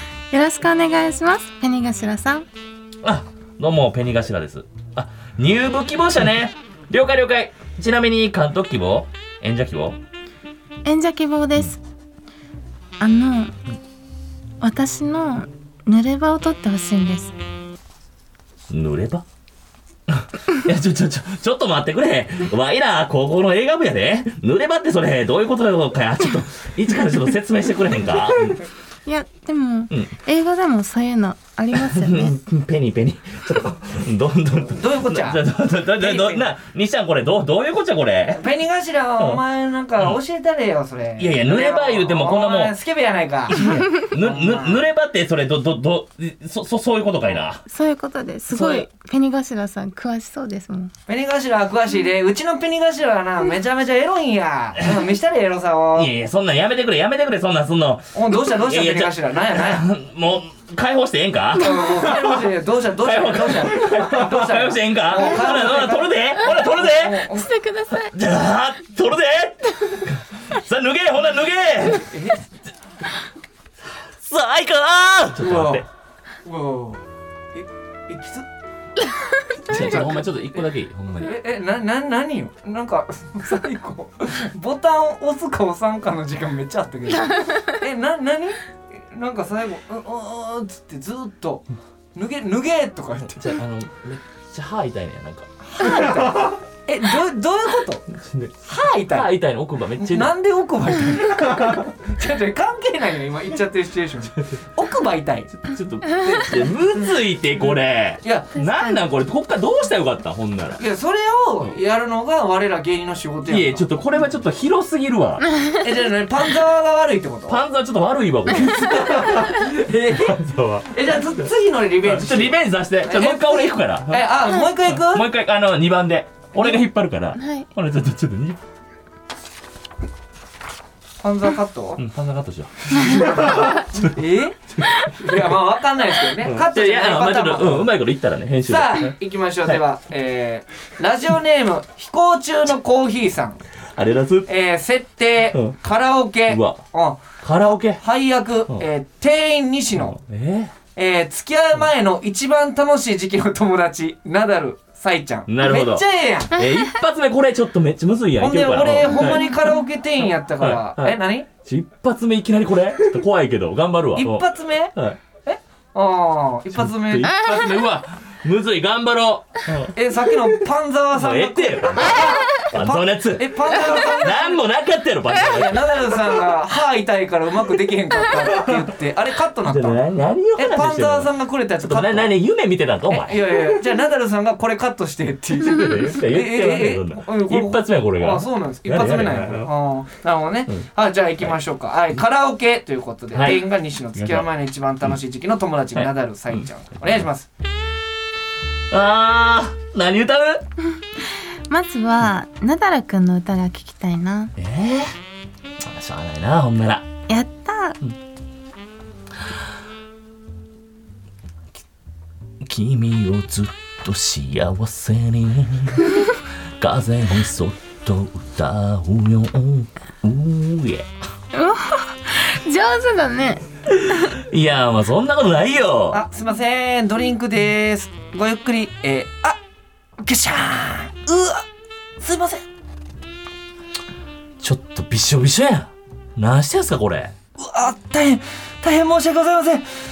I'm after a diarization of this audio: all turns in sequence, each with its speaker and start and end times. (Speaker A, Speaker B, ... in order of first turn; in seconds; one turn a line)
Speaker A: 0.3-2.5
Speaker B: 3.0-10.0
Speaker A: 10.8-11.8
Speaker A: 13.0-13.5
Speaker A: 14.6-17.3
Speaker B: 18.7-19.2
Speaker B: 20.1-28.6
Speaker A: 29.1-32.4
Speaker B: 31.7-38.5
Speaker C: 34.6-36.5
Speaker C: 38.3-44.8
Speaker B: 41.2-42.7
Speaker B: 43.5-47.6
Speaker A: 47.7-50.9
Speaker B: 48.5-48.9
Speaker C: 51.1-56.1
Speaker B: 55.9-62.5
Speaker C: 58.1-59.8
Speaker C: 61.6-67.5
Speaker B: 63.0-67.2
Speaker A: 67.3-68.2
Speaker B: 67.9-72.1
Speaker C: 71.9-72.5
Speaker B: 74.1-75.8
Speaker C: 75.4-75.8
Speaker C: 76.4-77.0
Speaker C: 77.5-78.5
Speaker C: 79.7-80.7
Speaker B: 79.7-81.4
Speaker C: 81.2-93.6
Speaker B: 93.2-96.2
Speaker C: 95.7-98.1
Speaker B: 98.1-100.3
Speaker C: 98.6-99.3
Speaker C: 100.0-105.5
Speaker B: 105.6-110.8
Speaker C: 108.2-108.6
Speaker C: 110.8-113.9
Speaker B: 113.5-115.5
Speaker C: 115.8-117.6
Speaker B: 117.5-119.6
Speaker C: 118.8-125.3
Speaker B: 120.2-120.9
Speaker B: 122.0-128.6
Speaker A: 127.3-127.7
Speaker C: 131.2-132.0
Speaker B: 132.0-134.1
Speaker C: 133.0-137.9
Speaker B: 134.8-135.4
Speaker B: 136.4-139.1
Speaker C: 138.7-143.6
Speaker B: 143.9-144.5
Speaker C: 144.5-150.2
Speaker B: 145.5-145.8
Speaker B: 146.5-146.8
Speaker B: 147.4-148.0
Speaker B: 149.9-150.7
Speaker C: 150.9-156.5
Speaker B: 155.5-159.5
Speaker C: 158.4-161.5
Speaker A: 159.2-159.7
Speaker B: 160.6-165.2
Speaker C: 164.2-167.3
Speaker B: 166.7-169.9
Speaker A: 167.3-167.6
Speaker C: 169.9-174.7
Speaker B: 171.1-176.1
Speaker C: 175.3-180.0
Speaker B: 179.6-181.3
Speaker C: 180.5-182.3
Speaker B: 181.8-183.8
Speaker C: 183.1-197.5
Speaker B: 185.5-189.7
Speaker B: 193.3-194.5
Speaker B: 195.9-196.6
Speaker B: 198.9-200.6
Speaker A: 201.2-204.5
Speaker B: 204.6-205.1
Speaker B: 205.8-207.1
Speaker A: 207.3-208.0
Speaker B: 212.6-221.1
Speaker A: 221.5-223.6
Speaker B: 224.0-226.2
Speaker C: 226.1-229.6
Speaker C: 230.2-231.7
Speaker C: 232.2-232.6
Speaker B: 234.6-237.3
Speaker C: 237.6-239.8